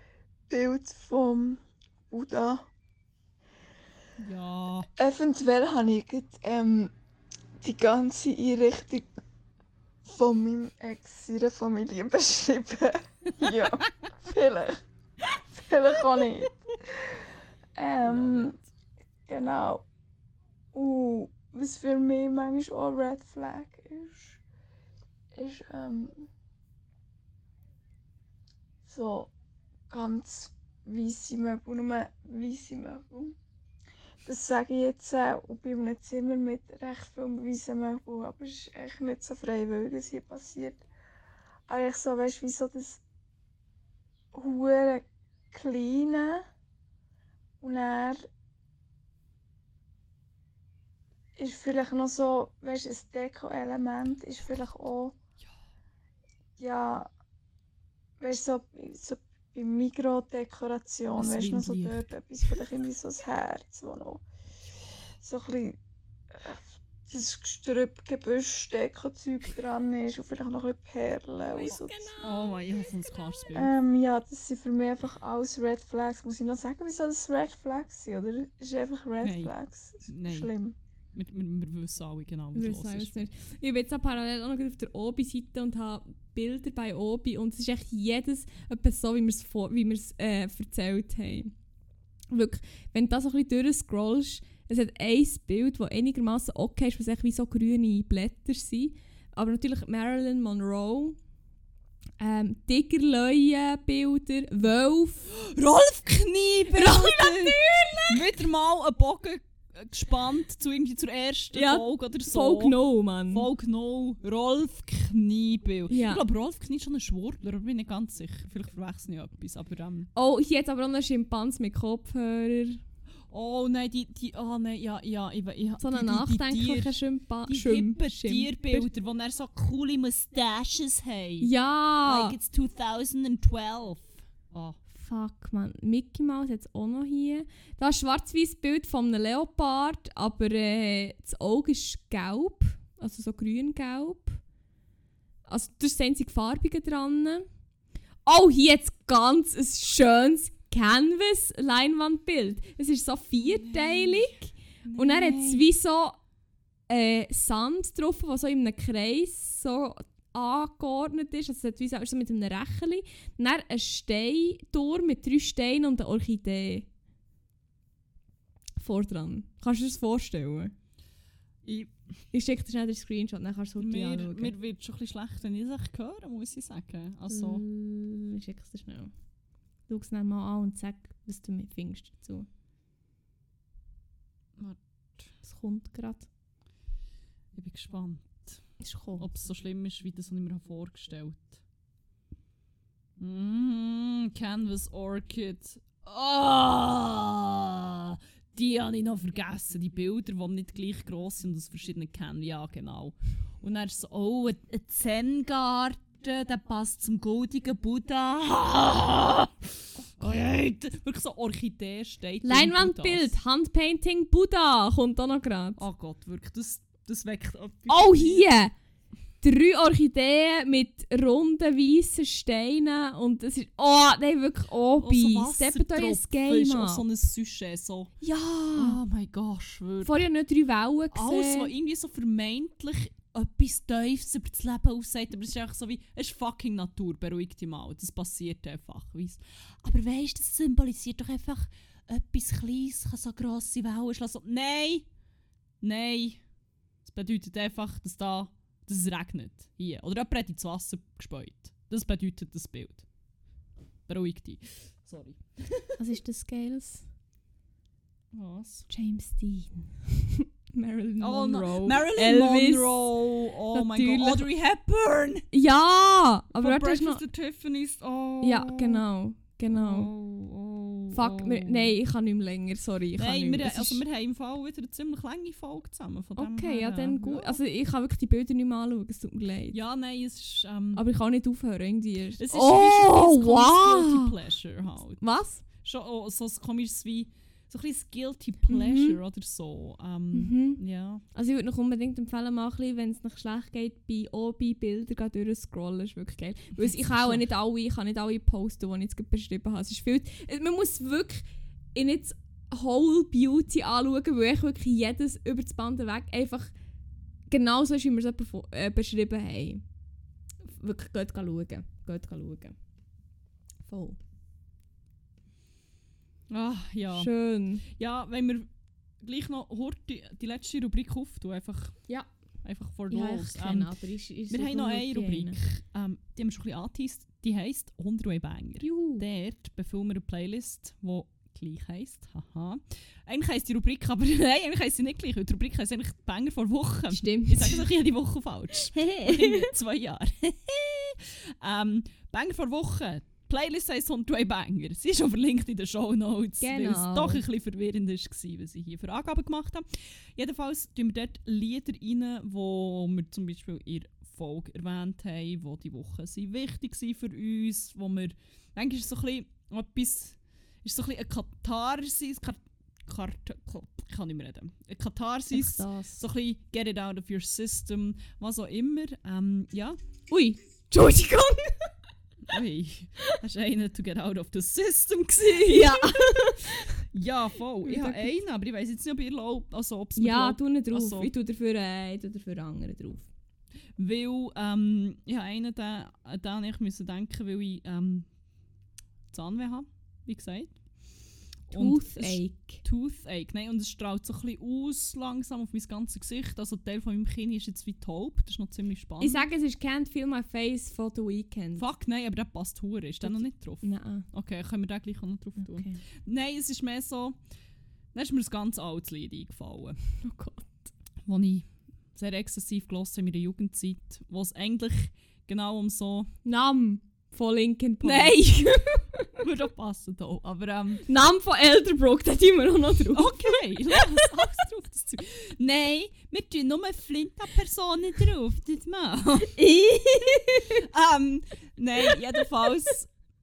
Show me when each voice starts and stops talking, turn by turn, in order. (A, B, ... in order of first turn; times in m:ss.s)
0:00.5-0:02.7 A
0:04.2-0:04.9 B
0:05.0-0:06.9 A
0:07.6-0:09.1 A
0:10.0-0:17.1 A
0:13.4-0:13.7 B
0:17.8-0:18.6 A
0:18.0-0:18.6 B
0:19.3-0:19.8 A
0:20.7-0:24.4 A
0:25.4-0:26.3 A
0:28.8-0:29.3 A
0:29.9-0:33.4 A
0:34.2-0:40.8 A
0:41.7-0:43.0 A
0:44.3-0:46.5 A
0:47.6-0:48.3 A
0:51.4-0:55.2 A
0:56.6-0:57.1 A
0:58.2-1:04.2 A
1:01.1-1:02.0 B
1:05.2-1:05.8 A
1:06.3-1:12.2 A
1:11.5-1:13.6 C
1:12.2-1:13.7 B
1:13.5-1:20.8 A
1:19.2-1:19.5 B
1:20.0-1:20.5 B
1:21.1-1:23.2 B
1:22.5-1:31.5 C
1:32.3-1:41.2 C
1:42.2-1:45.3 C
1:45.3-1:52.8 B
1:46.7-1:48.3 C
1:51.5-1:53.5 C
1:53.3-2:00.1 B
1:55.9-1:56.2 C
2:00.2-2:02.8 C
2:03.3-2:11.5 B
2:05.8-2:08.9 C
2:11.4-2:12.4 C
2:12.0-2:14.8 B
2:14.9-2:24.4 C
2:25.5-2:27.5 C
2:28.2-2:36.2 C
2:33.4-2:35.7 B
2:36.9-2:46.9 C
2:48.8-2:50.7 C
2:51.6-2:51.9 B
2:52.3-2:54.5 C
2:53.8-2:57.6 B
2:57.3-2:59.1 C
2:59.9-3:02.5 C
3:04.6-3:05.3 B
3:05.4-3:06.3 C
3:07.5-3:08.6 B
3:08.8-3:09.3 C
3:09.2-3:11.6 B
3:13.2-3:33.3 B
3:32.4-3:35.8 C
3:35.8-3:38.5 B
3:37.9-3:38.7 C
3:39.4-3:47.0 C
3:45.0-3:48.1 B
3:48.2-3:49.0 C
3:48.7-3:50.3 B
3:50.0-3:51.7 C
3:51.1-4:05.1 B
4:05.8-4:06.4 B
4:07.0-4:13.0 B
4:14.1-4:16.0 B
4:16.0-4:17.0 C
4:18.3-4:18.9 B
4:18.9-4:24.5 C
4:21.2-4:25.5 B
4:25.5-4:27.2 C
4:26.6-4:29.0 B
4:28.4-4:30.1 C
4:29.7-4:31.9 B
4:31.1-4:34.0 C
4:33.2-4:37.6 B
4:36.4-4:39.8 C
4:39.7-4:41.0 B
4:40.9-4:44.3 C
4:42.4-4:45.2 B
4:45.2-4:45.6 C
4:45.8-4:51.2 B
4:48.7-4:49.2 C
4:50.3-4:50.8 C
4:51.3-5:06.7 C
4:56.8-4:57.5 B
5:07.5-5:09.8 C
5:10.6-5:12.8 C
5:13.9-5:14.2 C
5:16.5-5:17.3 B
5:17.1-5:17.8 C
5:17.9-5:18.7 B
5:19.2-5:22.1 B
5:22.6-6:10.0 B
5:23.1-5:25.6 C
5:28.8-5:29.2 C
5:37.1-5:37.8 C
5:39.0-5:39.7 C
5:46.6-5:47.4 C
6:05.5-6:06.2 C
6:10.3-6:11.9 C
6:12.4-6:21.3 B
6:15.4-6:17.0 C
6:17.8-6:18.4 C
6:20.2-6:23.3 C
6:24.0-6:28.3 B
6:29.3-6:30.8 B
6:31.7-6:39.5 B
6:31.7-6:32.8 C
6:39.2-6:41.8 C
6:41.8-6:47.4 B
6:43.2-6:44.3 C
6:45.6-6:46.0 C
6:48.1-6:50.0 B
6:50.2-6:50.9 C
6:51.2-6:56.3 B
6:56.4-6:59.4 C
6:58.0-6:58.8 B
6:59.4-7:01.0 B
7:01.1-7:04.3 C
7:03.1-7:09.6 B
7:09.6-7:10.8 C
7:10.7-7:13.1 B